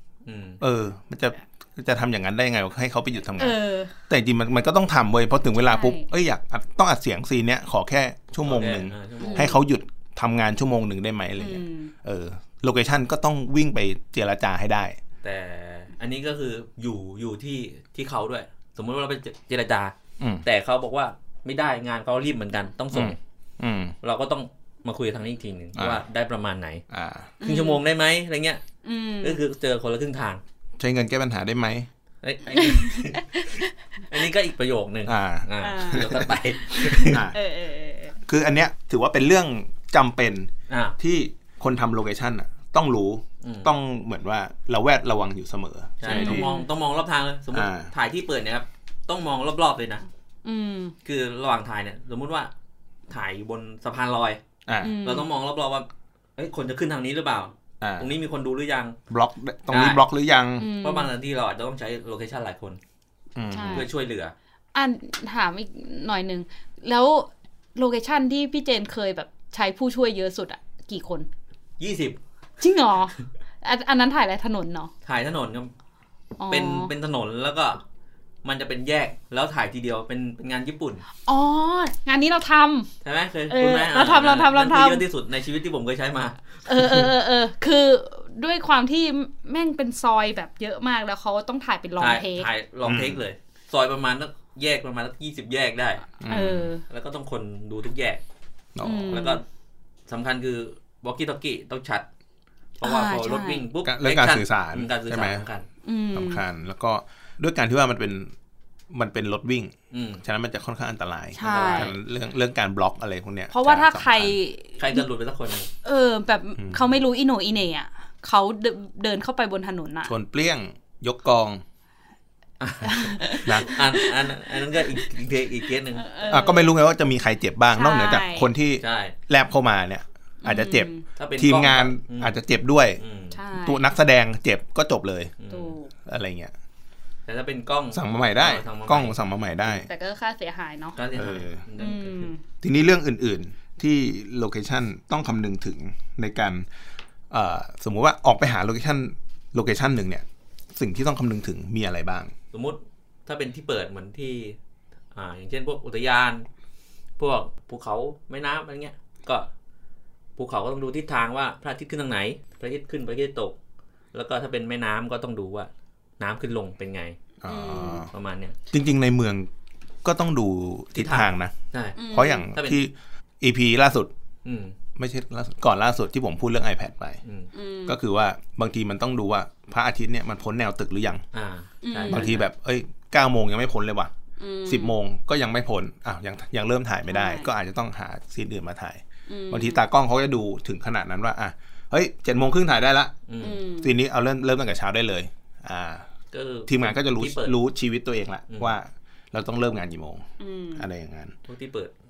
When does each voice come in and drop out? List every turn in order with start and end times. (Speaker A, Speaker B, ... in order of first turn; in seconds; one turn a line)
Speaker A: 0.3-0.6
Speaker B: 0.6-3.6
Speaker C: 3.4-3.9
Speaker B: 4.1-15.0
Speaker C: 5.7-6.1
Speaker A: 8.4-9.5
Speaker C: 9.2-9.6
Speaker C: 11.4-11.9
Speaker A: 15.2-23.2
Speaker B: 20.2-20.4
Speaker B: 22.9-23.9
Speaker A: 24.0-26.8
Speaker B: 25.8-26.0
Speaker B: 26.9-27.3
Speaker C: 27.4-27.8
Speaker A: 27.4-28.6
Speaker C: 28.8-29.4
Speaker A: 29.2-30.4
Speaker B: 30.8-31.9
Speaker A: 32.2-33.6
Speaker C: 32.6-33.6
Speaker A: 34.1-37.2
Speaker B: 35.1-36.3
Speaker C: 35.6-38.2
Speaker B: 37.0-37.4
Speaker B: 38.2-46.5
Speaker A: 40.7-41.0
Speaker A: 43.4-43.7
Speaker A: 46.0-50.1
Speaker C: 46.1-46.7
Speaker B: 47.5-47.9
Speaker C: 50.5-51.0
Speaker A: 51.0-52.5
Speaker A: 53.1-54.4
Speaker B: 54.7-55.0
Speaker C: 54.8-55.3
Speaker A: 55.0-59.0
Speaker B: 57.8-58.1
Speaker B: 59.1-60.7
Speaker A: 59.7-60.0
Speaker C: 60.6-61.1
Speaker A: 60.8-62.8
Speaker B: 63.4-63.9
Speaker C: 63.5-63.9
Speaker A: 63.7-64.3
Speaker C: 64.7-71.3
Speaker A: 71.8-72.2
Speaker C: 72.6-74.9
Speaker A: 75.0-75.7
Speaker C: 76.4-76.9
Speaker A: 76.5-77.8
Speaker A: 78.4-81.0
Speaker C: 81.2-82.9
Speaker A: 83.0-87.1
Speaker C: 83.5-85.0
Speaker C: 86.7-92.5
Speaker A: 92.0-96.1
Speaker B: 92.8-93.2
Speaker B: 96.2-96.7
Speaker C: 96.3-96.8
Speaker A: 96.9-98.2
Speaker B: 98.8-99.2
Speaker C: 98.8-99.4
Speaker A: 99.1-99.4
Speaker A: 100.1-102.1
Speaker A: 102.8-105.7
Speaker C: 102.8-103.6
Speaker B: 103.8-105.5
Speaker C: 105.8-106.4
Speaker B: 106.1-108.3
Speaker B: 108.9-114.4
Speaker A: 109.9-110.2
Speaker C: 111.3-111.9
Speaker A: 111.4-112.0
Speaker C: 113.5-115.1
Speaker A: 114.8-115.7
Speaker C: 115.8-120.1
Speaker B: 120.1-121.6
Speaker A: 122.6-126.2
Speaker C: 122.8-124.1
Speaker C: 126.0-126.7
Speaker B: 126.3-133.0
Speaker C: 127.7-128.5
Speaker A: 128.8-129.2
Speaker C: 130.4-131.1
Speaker A: 131.2-132.4
Speaker A: 133.0-133.4
Speaker C: 133.3-133.8
Speaker B: 133.6-135.3
Speaker A: 135.4-135.8
Speaker C: 135.5-135.9
Speaker B: 136.1-136.5
Speaker A: 137.3-139.2
Speaker B: 137.9-139.9
Speaker C: 139.8-141.0
Speaker A: 141.0-142.3
Speaker B: 141.2-141.6
Speaker C: 141.8-142.4
Speaker B: 142.6-146.7
Speaker B: 147.3-150.2
Speaker B: 150.8-152.3
Speaker A: 152.5-154.6
Speaker A: 155.1-156.5
Speaker A: 157.2-159.5
Speaker A: 160.4-163.6
Speaker A: 164.1-167.2
Speaker B: 167.4-168.1
Speaker C: 167.5-168.0
Speaker A: 167.8-168.6
Speaker B: 168.7-169.5
Speaker B: 170.0-171.6
Speaker A: 170.9-172.0
Speaker C: 172.0-172.5
Speaker B: 172.1-174.1
Speaker A: 172.5-172.8
Speaker A: 174.4-174.8
Speaker B: 175.0-177.2
Speaker C: 177.5-178.0
Speaker B: 177.9-181.2
Speaker A: 181.3-182.4
Speaker C: 181.8-182.3
Speaker B: 182.1-184.1
Speaker C: 184.4-184.9
Speaker B: 184.7-193.1
Speaker C: 187.1-187.5
Speaker C: 189.3-189.8
Speaker A: 193.3-193.6
Speaker C: 193.4-193.9
Speaker B: 193.8-196.1
Speaker A: 196.3-197.6
Speaker B: 196.7-201.3
Speaker C: 200.4-200.8
Speaker A: 201.5-201.9